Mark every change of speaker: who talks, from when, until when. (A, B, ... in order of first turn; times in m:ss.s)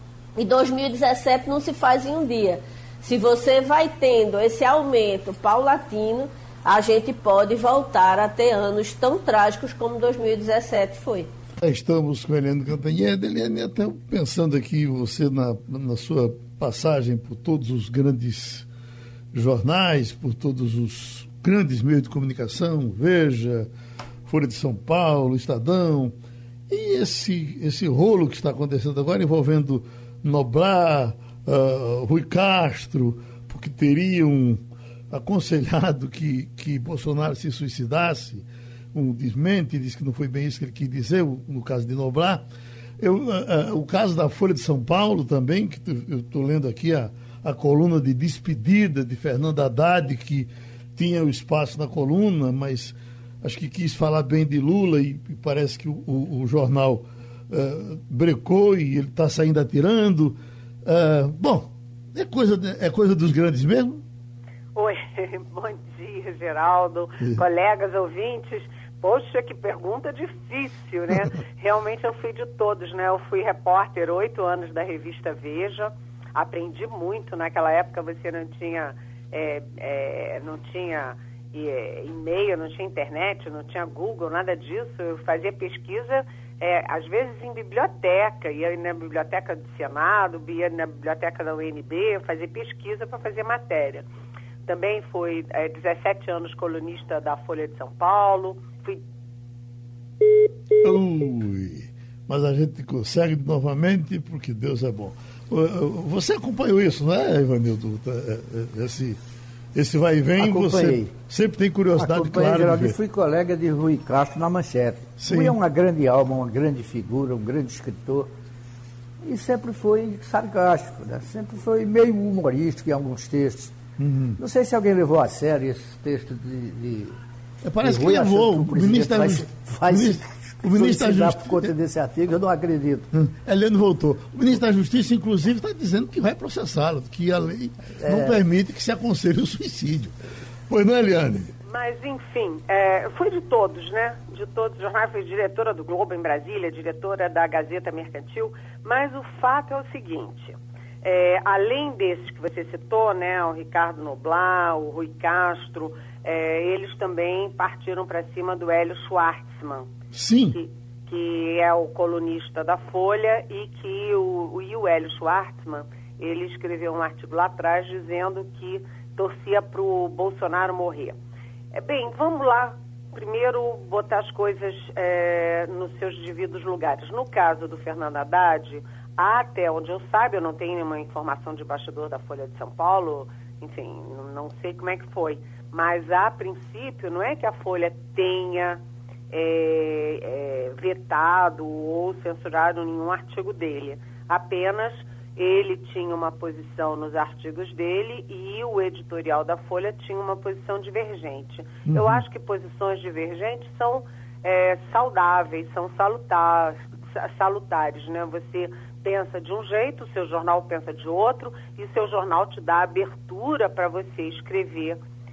0:00.4-0:11.3 A
0:11.6-0:18.7 B
0:19.3-0:23.7 B
0:24.3-0:26.2 B
0:26.7-0:42.4 B
0:43.0-1:04.0 B
1:04.8-1:34.1 C
1:34.6-1:39.0 C
1:40.8-1:49.2 B
1:49.8-1:53.0 B
1:50.4-1:51.1 D
1:52.0-1:58.3 D
1:55.2-1:55.6 B
1:59.2-2:03.8 D
2:04.0-2:04.4 B
2:04.4-2:07.2 D
2:07.6-2:11.7 B
2:07.8-2:13.1 D
2:13.1-2:20.2 B
2:18.0-2:18.4 D
2:20.7-2:21.6 B
2:21.6-2:39.9 C
2:40.1-2:40.6 B
2:40.5-2:51.2 C
2:51.7-3:35.0 C
3:21.9-3:22.2 B